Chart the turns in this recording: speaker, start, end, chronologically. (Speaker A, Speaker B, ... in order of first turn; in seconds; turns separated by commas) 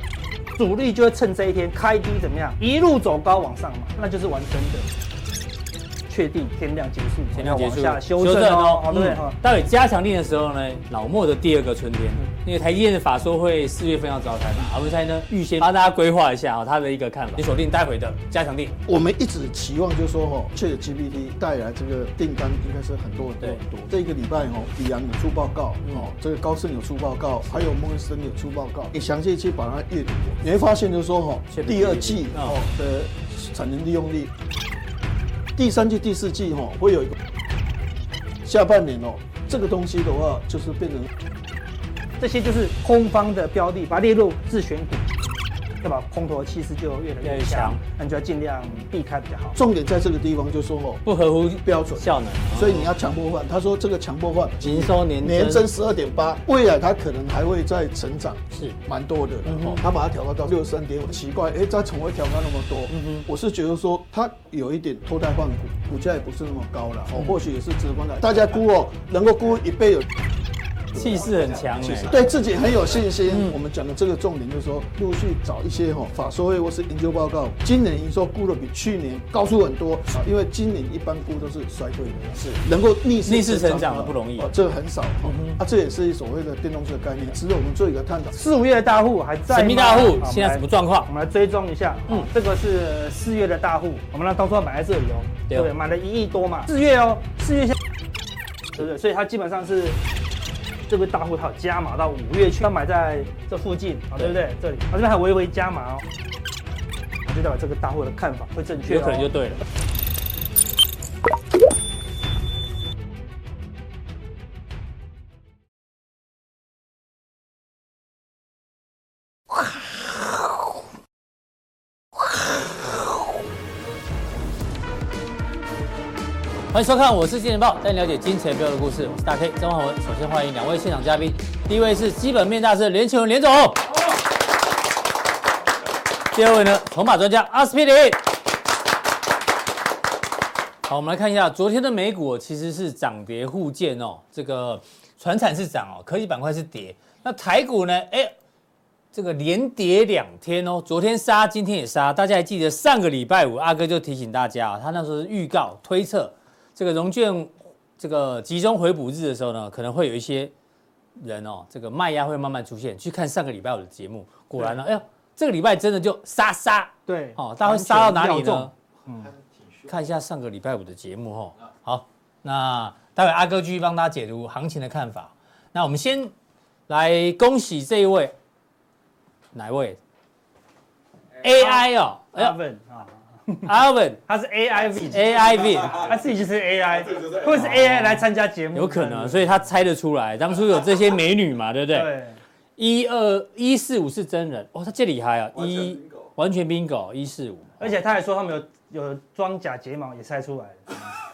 Speaker A: 0.6-4.8, Speaker A: 6.1-9.3, Speaker B: 7.3-18.8, Speaker C: 18.9-34.3, Speaker B: 25.8-26.1, Speaker B: 31.5-32.6, Speaker C: 35.5-37.2, Speaker C: 38.4-41.1, Speaker A: 42.2-45.1, Speaker A: 45.8-49.6, Speaker B: 47.2-47.8, Speaker C: 49.5-51.0, Speaker B: 51.0-52.9, Speaker C: 51.6-70.0, Speaker B: 54.6-55.7, Speaker B: 58.5-58.8, Speaker B: 59.5-59.8, Speaker B: 62.9-63.2, Speaker B: 70.9-72.2, Speaker C: 70.9-71.2, Speaker C: 71.9-88.4, Speaker B: 73.3-73.5, Speaker B: 83.2-84.5, Speaker B: 85.2-85.6, Speaker A: 88.3-97.7, Speaker B: 89.5-91.1, Speaker A: 98.7-100.0, Speaker A: 100.9-106.0, Speaker A: 107.2-109.3, Speaker B: 108.9-109.6, Speaker B: 126.7-133.9, Speaker B: 136.3-138.4, Speaker B: 140.8-148.3, Speaker B: 149.1-160.5, Speaker B: 161.2-168.7, Speaker A: 167.1-169.3, Speaker B: 169.8-176.3, Speaker B: 176.9-178.3, Speaker B: 179.5-180.0, Speaker B: 181.4-182.6, Speaker A: 181.6-183.7, Speaker B: 183.6-184.2, Speaker A: 184.3-189.5, Speaker B: 185.1-186.0, Speaker B: 187.4-192.1, Speaker A: 191.9-192.4, Speaker B: 192.8-197.8, Speaker A: 197.8-201.1